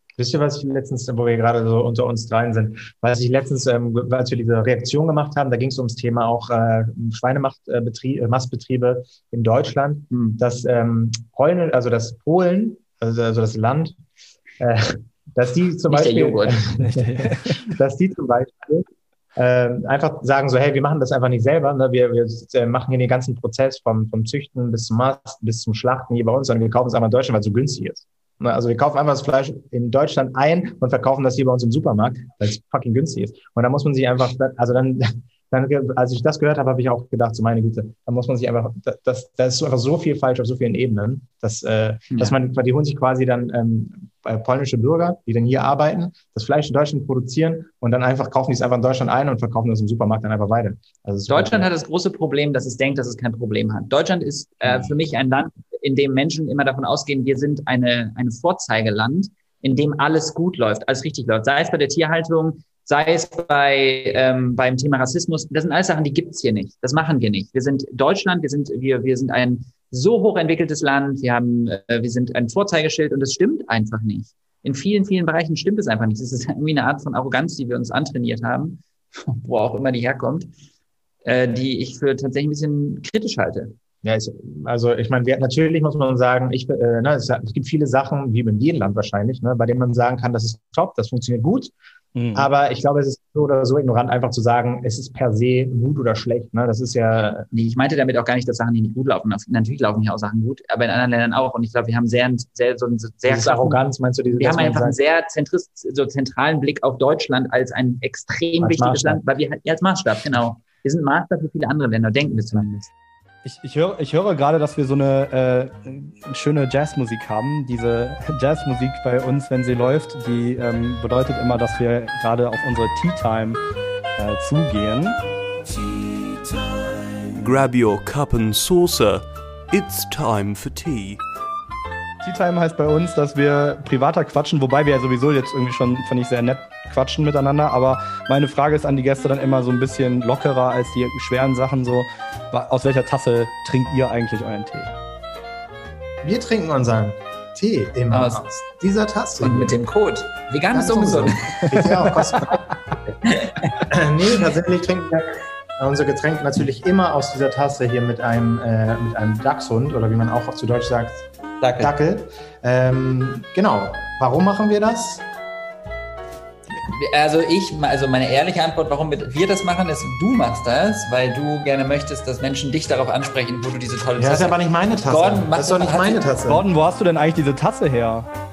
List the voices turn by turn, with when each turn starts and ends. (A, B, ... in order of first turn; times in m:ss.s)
0:00.2-0:14.0 A
0:10.1-0:10.4 B
0:14.6-0:51.7 A
0:15.9-0:16.6 B
0:16.8-0:17.6 C
0:51.3-1:20.5 B
1:21.2-1:23.7 B
1:24.0-1:31.7 A
1:32.1-1:32.5 C
1:32.3-1:37.5 A
1:37.5-1:52.7 B
1:43.2-1:45.0 A
1:48.6-1:49.2 A
1:52.5-1:52.9 A
1:53.4-2:03.6 C
2:04.2-2:05.2 C
2:07.3-2:11.2 D
2:12.2-2:24.9 C
2:26.2-2:29.8 A
2:28.1-2:28.5 B
2:29.4-2:31.9 B
2:30.7-2:32.7 A
2:33.2-2:33.8 B
2:33.9-2:41.3 A
2:41.6-2:41.9 B
2:41.8-2:45.2 A
2:46.9-2:56.3 B
2:54.2-2:56.6 A
2:56.4-2:58.3 C